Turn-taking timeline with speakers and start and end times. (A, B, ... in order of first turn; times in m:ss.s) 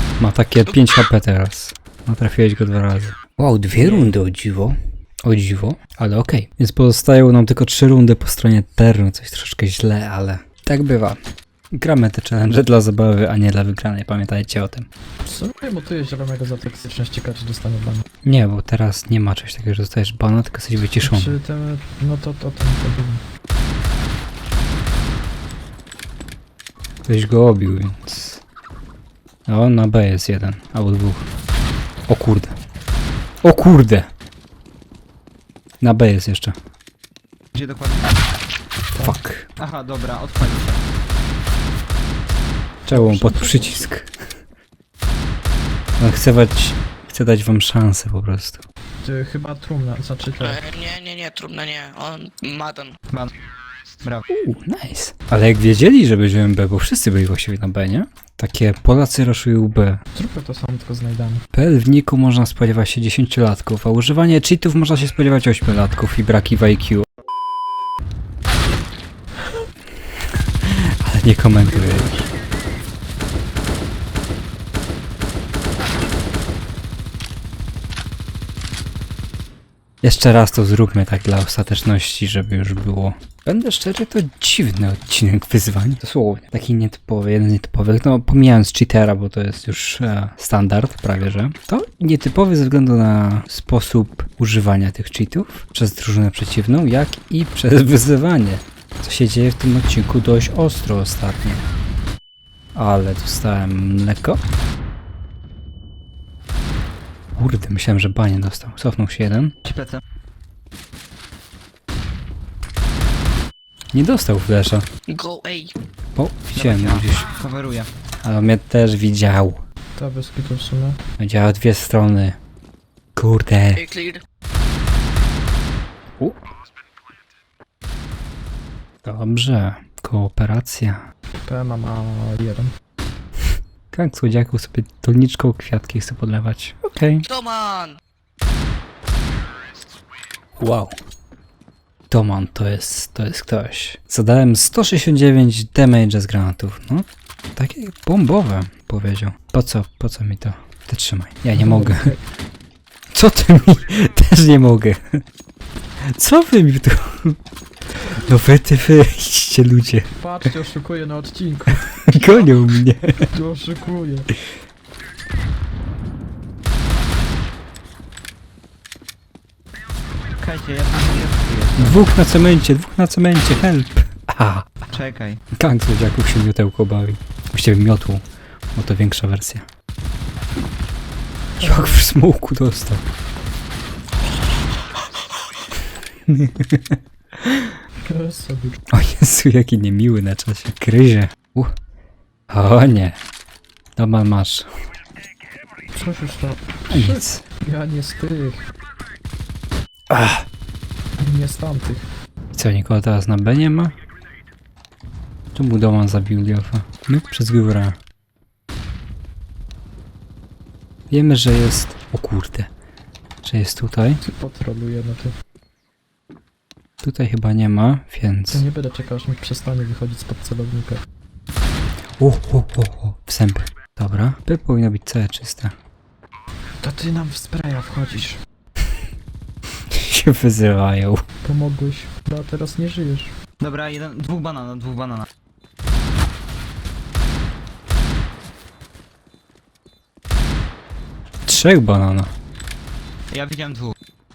0:00.2-0:11.2 A
0:03.8-0:04.1 B
0:11.7-0:14.9 A
0:15.2-0:18.0 C
0:18.2-0:21.4 A
0:21.0-0:23.2 C
0:27.0-0:28.4 A
0:29.5-0:31.2 A
0:32.1-0:32.6 A
0:33.4-0:34.1 A
0:35.8-0:36.6 A
0:37.6-0:38.1 B
0:38.9-0:39.2 C
0:39.0-0:39.5 A
0:39.6-0:40.8 B
0:42.8-0:44.1 A
0:42.9-0:43.8 C
0:46.0-0:48.6 A
0:49.0-0:50.6 C
0:50.4-0:53.0 D
0:54.0-0:54.3 B
0:54.3-1:00.0 A
1:00.1-1:01.4 C
1:01.5-1:07.0 A
1:10.0-1:12.3 A
1:11.7-1:12.1 C
1:20.0-1:41.6 A
1:42.7-1:44.4 A
1:47.4-1:49.5 A
1:49.6-1:50.0 B
1:53.9-1:54.9 A
1:55.1-1:55.7 D
1:56.2-1:57.3 A
1:56.5-1:57.9 B
1:58.2-1:59.6 A
2:00.0-2:01.0 C
2:01.2-2:02.4 A
2:03.2-2:03.8 A
2:03.7-2:04.2 D
2:09.0-2:11.0 A
2:11.4-2:12.7 C
2:13.9-2:17.2 A
2:17.2-2:18.0 D
2:20.6-2:20.9 A
2:22.1-2:32.1 A
2:31.5-2:32.2 C
2:33.1-2:35.2 A
2:36.0-2:37.4 A
2:38.0-2:40.1 A
2:40.1-2:42.2 C
2:42.1-2:43.3 A
2:43.3-2:44.3 C
2:50.4-2:52.1 B
2:51.8-2:54.8 A
2:54.9-2:55.4 B
2:55.5-2:59.7 A
3:01.6-3:02.1 C
3:01.6-3:03.0 A
3:06.3-3:07.7 A
3:08.0-3:08.8 C
3:08.9-3:11.7 A
3:12.5-3:13.2 A
3:13.9-3:14.7 A
3:15.9-3:18.6 C
3:16.9-3:17.4 A
3:20.1-3:20.4 A
3:21.2-3:22.1 C
3:22.5-3:24.0 A
3:25.5-3:28.0 A
3:31.1-3:32.7 A
3:33.4-3:34.2 A
3:34.2-3:35.3 C
3:37.0-3:38.6 A
3:38.5-3:41.0 C
3:42.2-3:45.7 A
3:46.8-3:48.4 C
3:49.9-3:51.2 A
3:51.4-3:53.3 C
3:53.6-3:55.3 B
4:01.4-4:02.3 A
4:03.3-4:03.9 B